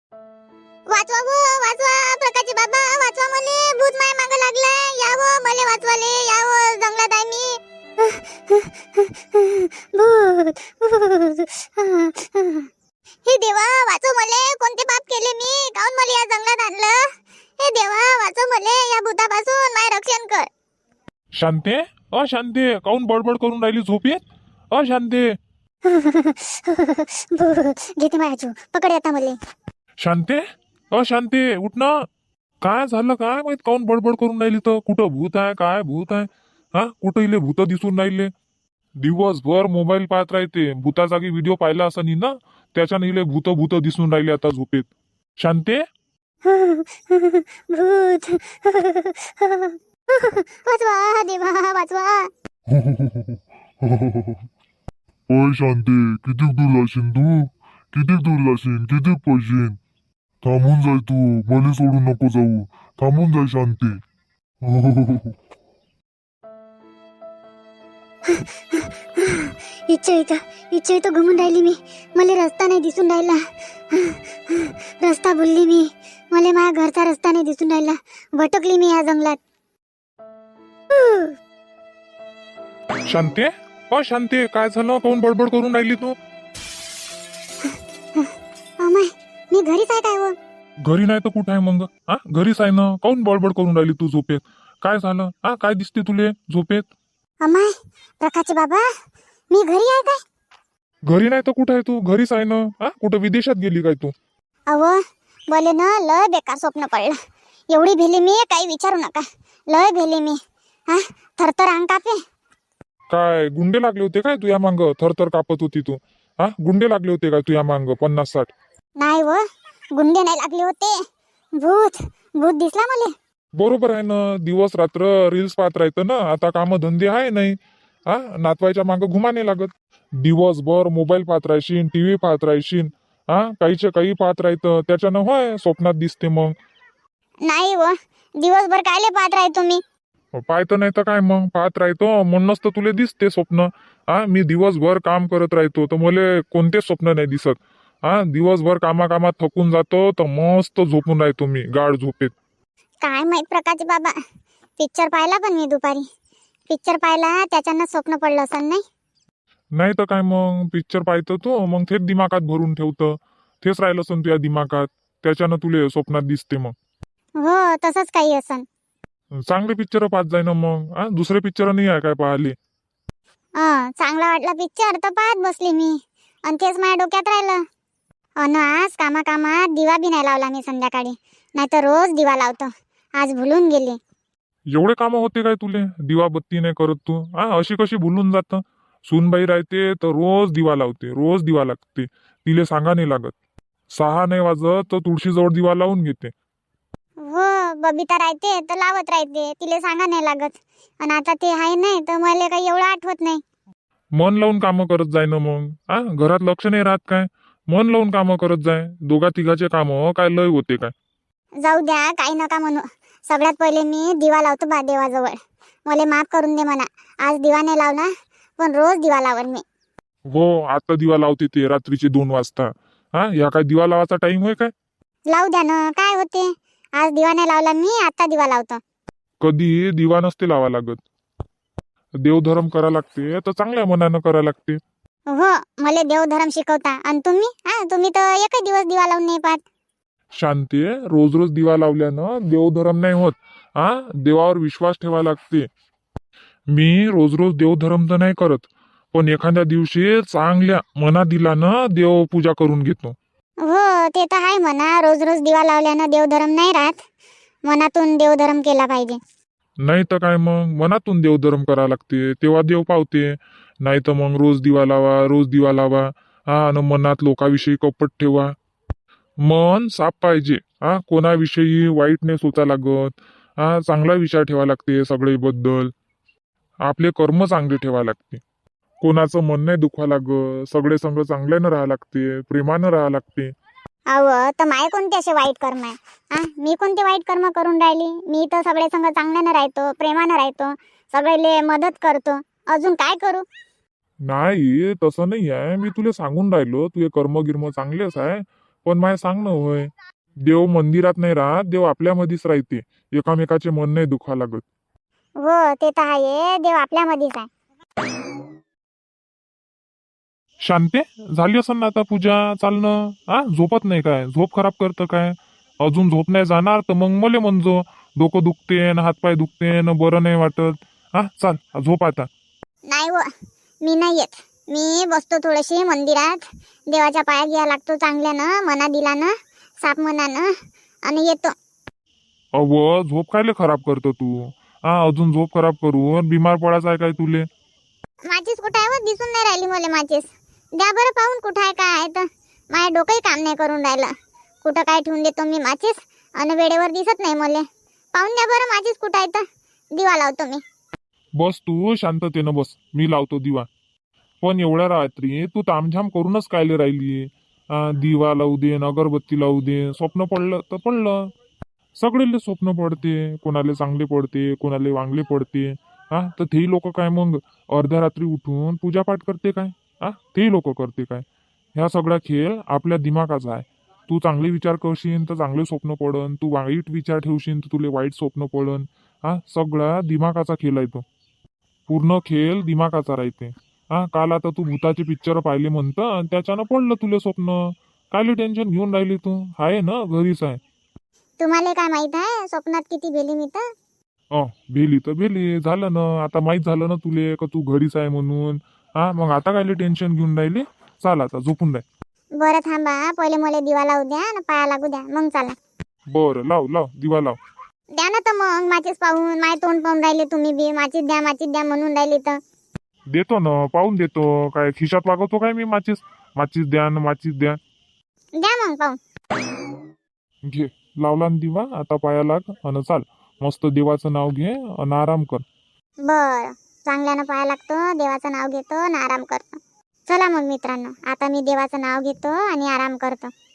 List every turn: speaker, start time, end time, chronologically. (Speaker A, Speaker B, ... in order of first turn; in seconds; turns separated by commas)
Speaker A: 0.9-12.7, Speaker A: 13.2-20.5, Speaker B: 21.3-25.4, Speaker A: 25.9-29.4, Speaker B: 30.0-30.4, Speaker B: 30.9-32.1, Speaker B: 32.6-38.3, Speaker B: 39.0-44.9, Speaker B: 45.4-45.8, Speaker A: 46.5-52.3, Speaker C: 52.7-54.4, Speaker C: 55.3-59.8, Speaker C: 60.4-64.0, Speaker C: 64.6-65.3, Speaker A: 68.3-79.4, Speaker A: 80.9-81.3, Speaker B: 83.1-86.2, Speaker A: 88.2-90.3, Speaker B: 90.8-96.9, Speaker A: 97.4-98.9, Speaker A: 99.5-100.2, Speaker B: 101.1-104.1, Speaker A: 104.7-105.0, Speaker A: 105.5-107.2, Speaker A: 107.7-110.4, Speaker A: 110.9-112.2, Speaker B: 113.1-118.5, Speaker A: 119.0-119.4, Speaker A: 120.0-121.0, Speaker A: 121.6-123.1, Speaker B: 123.6-136.6, Speaker A: 137.4-139.8, Speaker B: 140.3-152.3, Speaker A: 153.0-154.2, Speaker A: 154.8-156.1, Speaker A: 156.7-158.8, Speaker B: 159.8-166.8, Speaker A: 167.4-168.6, Speaker B: 169.3-172.6, Speaker A: 173.6-177.6, Speaker A: 178.4-184.0, Speaker B: 184.7-193.3, Speaker B: 193.9-196.3, Speaker A: 197.2-203.4, Speaker B: 204.2-210.9, Speaker A: 211.6-219.6, Speaker B: 220.3-224.7, Speaker A: 225.3-228.8, Speaker B: 229.4-231.0, Speaker B: 232.2-234.8, Speaker A: 235.3-239.6, Speaker B: 240.4-245.7, Speaker B: 246.7-253.2, Speaker A: 253.6-257.0, Speaker A: 257.7-259.2, Speaker B: 259.8-268.5, Speaker B: 269.4-275.9, Speaker B: 276.9-278.4, Speaker B: 279.0-283.5, Speaker A: 284.1-293.5, Speaker B: 294.2-299.9, Speaker B: 300.4-304.6, Speaker A: 305.4-307.5, Speaker B: 310.6-322.3, Speaker A: 322.9-323.3, Speaker A: 323.8-330.5, Speaker A: 331.1-331.5, Speaker B: 332.6-337.5, Speaker A: 338.3-344.1, Speaker A: 344.6-349.4, Speaker A: 349.9-350.6, Speaker B: 351.4-353.7, Speaker B: 354.4-361.3, Speaker B: 362.0-381.0, Speaker B: 381.9-390.6, Speaker A: 391.4-393.6, Speaker B: 394.3-401.8, Speaker A: 402.4-405.5, Speaker B: 406.1-407.4, Speaker A: 407.9-412.4, Speaker B: 413.1-417.6, Speaker A: 418.4-419.0, Speaker B: 420.4-425.4, Speaker A: 426.1-433.3